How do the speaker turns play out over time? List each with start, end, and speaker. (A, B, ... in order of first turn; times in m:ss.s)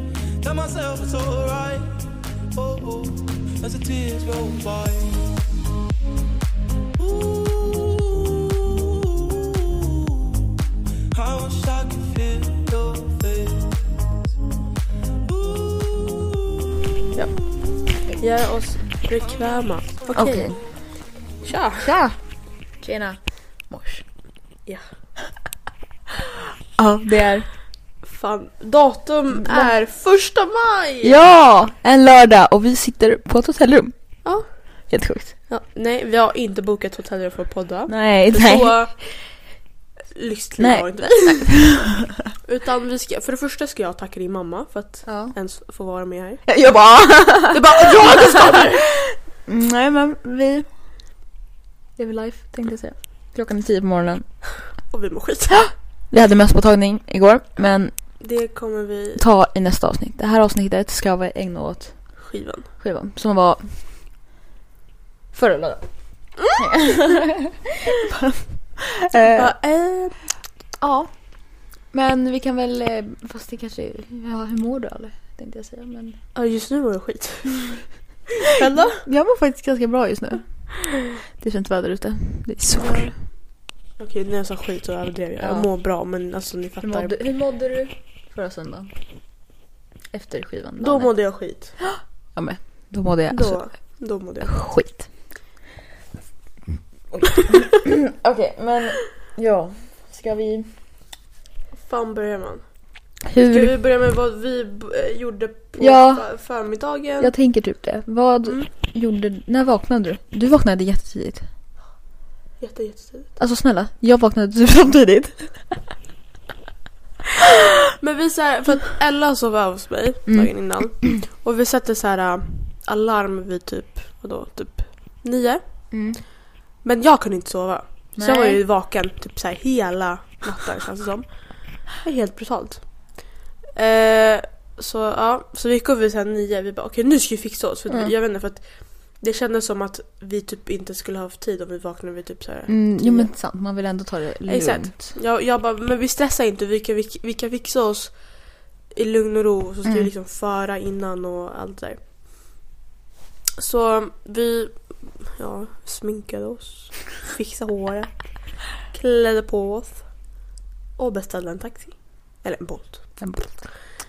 0:00.4-0:05.3 A
0:07.0-0:10.2 A
0:11.1-0:13.8 A
0:15.3-0:16.4 A
0:18.2-0:20.7 B
0:20.1-0:20.6 C
0:21.4-0:21.9 B
0:21.8-0:22.2 C
0:22.8-0:24.0 C
0:26.8-0:27.5 C
0:28.1-0:31.2 B
0:29.4-0:29.7 C
0:31.0-0:34.2 C
0:34.2-0:34.5 B
0:34.9-0:35.4 C
0:35.5-0:39.1 B
0:37.9-0:38.8 C
0:40.2-0:41.6 B
0:40.6-0:41.9 C
0:42.4-0:46.6 B
0:45.1-0:45.3 C
0:46.5-0:48.8 C
0:47.5-0:48.8 B
0:49.5-0:50.7 C
0:52.0-0:54.3 C
0:54.9-0:55.6 B
0:56.1-0:57.9 C
0:58.2-0:59.2 B
0:59.2-1:03.8 C
1:02.2-1:02.7 B
1:05.3-1:07.6 C
1:08.1-1:09.5 C
1:09.3-1:10.2 B
1:10.8-1:16.2 C
1:16.4-1:17.9 B
1:18.5-1:19.0 B
1:18.9-1:23.1 C
1:22.7-1:23.4 B
1:24.0-1:27.2 B
1:25.4-1:25.7 C
1:26.8-1:28.9 C
1:30.1-1:35.1 C
1:30.8-1:31.8 B
1:33.3-1:34.6 B
1:37.1-1:40.7 C
1:41.8-1:47.3 B
1:43.3-1:43.7 C
1:45.8-1:46.3 C
1:47.2-1:51.5 C
1:52.6-1:53.3 B
1:53.4-1:55.6 C
1:58.0-2:06.3 B
2:00.3-2:01.0 C
2:05.9-2:06.2 C
2:06.8-2:23.3 B
2:08.2-2:08.6 C
2:22.7-2:24.9 C
2:24.5-2:32.0 B
2:33.6-2:40.4 B
2:41.0-2:43.6 B
2:43.2-2:43.8 C